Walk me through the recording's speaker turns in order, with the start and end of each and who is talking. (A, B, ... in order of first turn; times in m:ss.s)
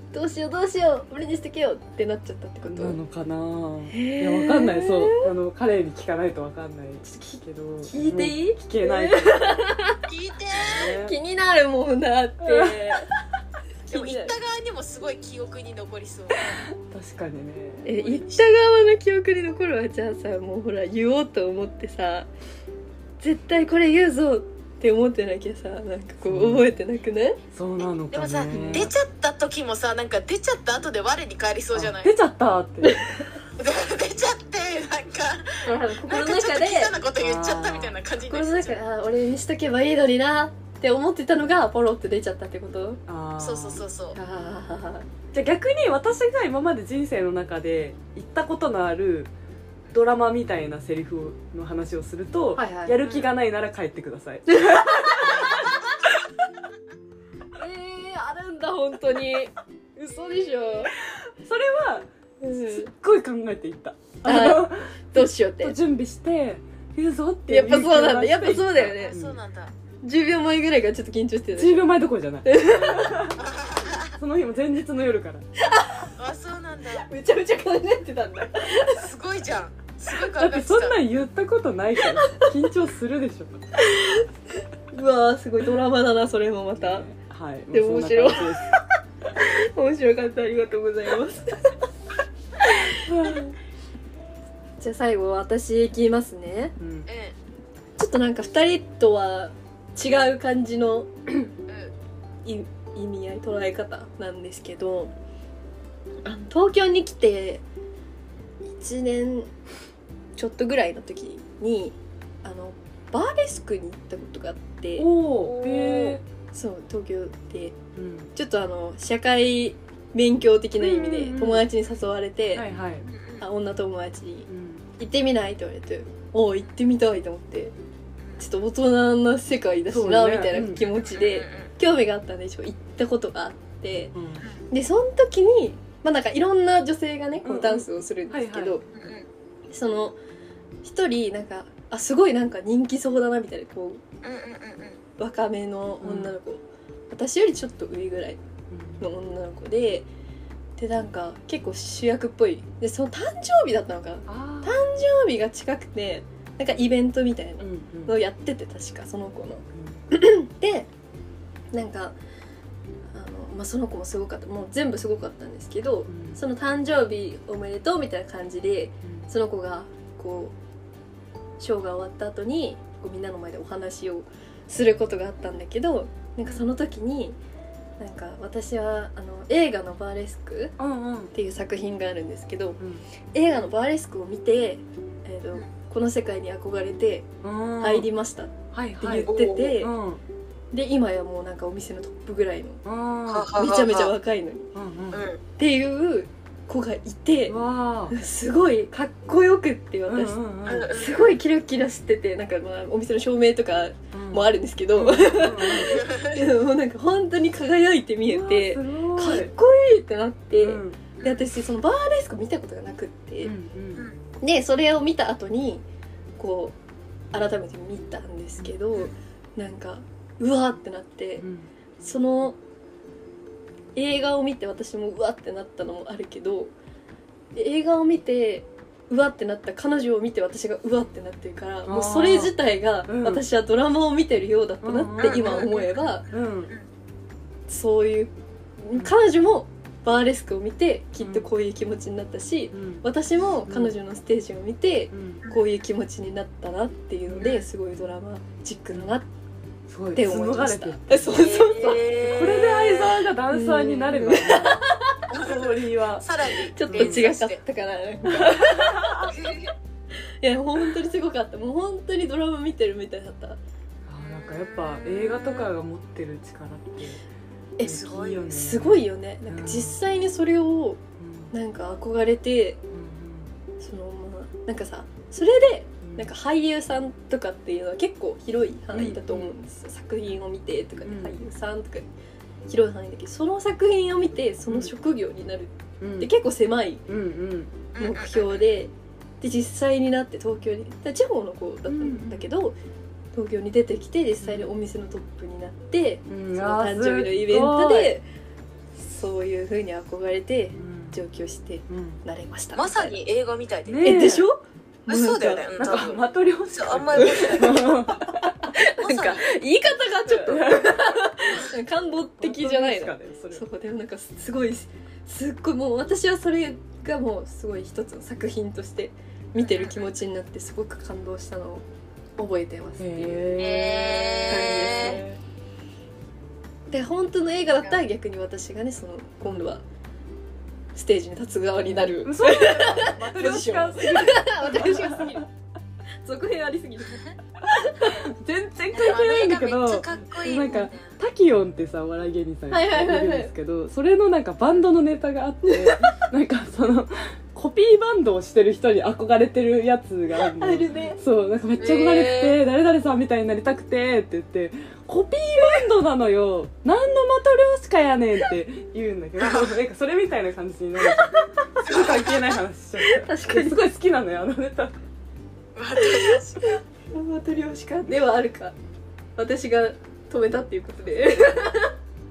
0:00.1-0:03.0 A
0:02.6-0:09.6 B
0:03.9-0:05.3 A
0:07.1-0:10.0 A
0:10.0-0:11.0 C
0:10.6-0:11.2 B
0:10.9-0:13.1 A
0:12.4-0:13.0 B
0:13.9-0:14.3 A
0:13.9-0:16.6 C
0:16.4-0:18.2 B
0:17.8-0:22.3 A
0:23.2-0:27.4 A
0:26.2-0:26.7 B
0:27.5-0:28.9 B
0:28.1-0:32.1 C
0:28.5-0:28.8 A
0:31.7-0:33.1 B
0:33.6-0:38.8 C
0:35.6-0:36.9 A
0:37.2-0:38.0 B
0:38.3-0:43.0 A
0:43.1-0:43.8 B
0:43.4-0:44.2 C
0:44.1-0:45.1 A
0:45.3-0:49.3 B
0:49.9-0:55.7 B
0:52.5-0:53.0 A
0:54.5-0:55.8 A
0:57.5-1:01.0 A
1:01.1-1:09.4 B
1:02.4-1:02.9 A
1:04.2-1:05.8 A
1:07.5-1:09.2 A
1:09.0-1:09.7 C
1:10.0-1:11.8 A
1:11.5-1:13.4 B
1:12.4-1:13.3 A
1:13.4-1:14.2 C
1:14.2-1:15.4 B
1:15.6-1:16.1 A
1:16.2-1:17.1 C
1:17.0-1:19.0 A
1:18.9-1:21.0 C
1:20.3-1:23.6 B
1:22.1-1:22.5 A
1:23.8-1:24.3 A
1:24.9-1:27.1 A
1:26.8-1:28.8 B
1:27.7-1:28.8 A
1:29.4-1:31.8 A
1:32.6-1:33.5 A
1:33.0-1:33.4 B
1:34.8-1:36.7 A
1:36.8-1:37.1 B
1:37.1-1:37.4 C
1:38.0-1:41.1 A
1:41.7-1:41.9 C
1:42.4-1:45.1 A
1:46.2-1:47.6 A
1:48.7-1:49.5 A
1:50.4-1:55.1 A
1:55.0-1:56.2 B
1:55.4-1:56.0 C
1:56.0-1:57.8 A
1:58.0-1:58.3 B
1:58.3-2:02.6 A
2:00.8-2:01.6 B
2:02.5-2:03.0 B
2:03.0-2:03.4 C
2:03.4-2:07.7 A
2:04.5-2:04.8 B
2:08.4-2:14.1 A
2:09.9-2:10.8 B
2:11.0-2:11.7 C
2:14.1-2:14.4 B
2:14.7-2:18.8 A
2:17.4-2:18.8 B
2:18.9-2:19.3 C
2:19.7-2:20.2 A
2:20.8-2:24.0 A
2:24.2-2:25.0 C
2:25.2-2:28.4 A
2:26.0-2:26.4 B
2:28.7-2:29.0 B
2:29.0-2:30.1 A
2:30.8-2:40.9 A
2:34.3-2:34.8 B
2:37.6-2:38.1 B
2:39.7-2:40.0 B
2:41.7-2:42.2 A
2:43.1-2:50.6 A
2:46.1-2:46.4 B
2:51.6-2:57.4 A
2:58.0-3:00.8 A
3:00.8-3:01.3 B
3:01.3-3:02.8 A
3:02.8-3:03.0 B
3:03.3-3:09.9 A
3:07.4-3:08.1 B
3:08.7-3:10.2 B
3:09.3-3:09.8 C
3:10.7-3:12.8 A
3:12.8-3:13.5 B
3:13.3-3:14.1 C
3:13.5-3:14.7 A
3:14.7-3:15.2 B
3:15.1-3:15.4 C
3:15.6-3:17.6 A
3:17.5-3:18.1 B
3:18.1-3:20.4 A
3:20.1-3:20.9 B
3:20.7-3:21.1 C
3:20.9-3:33.5 A
3:24.1-3:26.0 B
3:25.8-3:26.4 C
3:28.3-3:29.5 B
3:30.5-3:31.0 B
3:33.4-3:34.1 B
3:34.4-3:35.8 A
3:36.4-3:36.8 A
3:37.3-3:41.5 A
3:41.4-3:41.7 B
3:42.0-3:42.6 A
3:44.0-3:46.7 A
3:47.5-3:56.3 A
3:51.8-3:52.6 B
3:53.1-3:53.4 B
3:54.8-3:55.7 B
3:55.2-3:56.8 C
3:56.3-3:56.7 B
3:57.7-4:09.3 A
4:01.2-4:01.5 B
4:02.7-4:03.0 B
4:03.6-4:03.9 B
4:05.1-4:05.4 B
4:07.3-4:07.5 B
4:07.4-4:07.6 C
4:09.9-4:11.5 B
4:10.1-4:12.2 A
4:11.3-4:13.0 C
4:12.1-4:16.2 B
4:13.5-4:15.3 A
4:15.3-4:17.6 C
4:16.7-4:19.3 A
4:16.9-4:17.3 B
4:18.3-4:19.3 B
4:19.3-4:19.7 C
4:20.4-4:23.6 A
4:24.1-4:27.2 B
4:24.4-4:25.6 C
4:27.8-4:31.0 A
4:27.8-4:30.0 B
4:31.2-4:31.5 B
4:31.5-4:32.8 A
4:32.9-4:33.5 B
4:33.8-4:42.1 A
4:36.0-4:36.3 B
4:38.9-4:39.5 B
4:41.0-4:41.4 B
4:42.7-4:47.0 A
4:46.0-4:46.3 B
4:47.1-4:47.7 B
4:47.9-4:48.6 C
4:48.0-4:52.8 A
4:51.9-4:52.5 B
4:53.3-4:58.2 A
4:54.4-4:54.7 B
4:56.3-4:58.2 B
4:59.0-5:03.1 A
5:00.8-5:01.2 B
5:01.9-5:02.2 B
5:02.7-5:04.1 C
5:03.9-5:04.4 B
5:04.0-5:05.7 A
5:05.1-5:08.0 C
5:05.8-5:08.6 B
5:07.2-5:07.9 A
5:08.6-5:21.8 A
5:09.0-5:09.4 C
5:10.2-5:11.6 B
5:12.4-5:13.6 B
5:19.6-5:20.1 C
5:22.4-5:23.7 A
5:23.0-5:25.4 B
5:23.6-5:25.2 C
5:24.5-5:25.2 A
5:26.9-5:29.8 A
5:30.9-5:35.5 A
5:31.8-5:35.5 B
5:36.2-5:38.2 A
5:38.0-6:05.0 B
5:38.9-5:41.2 C
5:42.7-5:43.5 A
5:45.6-5:46.2 A
5:50.4-5:51.2 A
5:51.8-5:52.6 C
6:01.1-6:02.4 A
6:03.0-6:03.8 A
6:05.7-6:06.6 C
6:06.0-6:08.7 A
6:09.4-6:11.9 A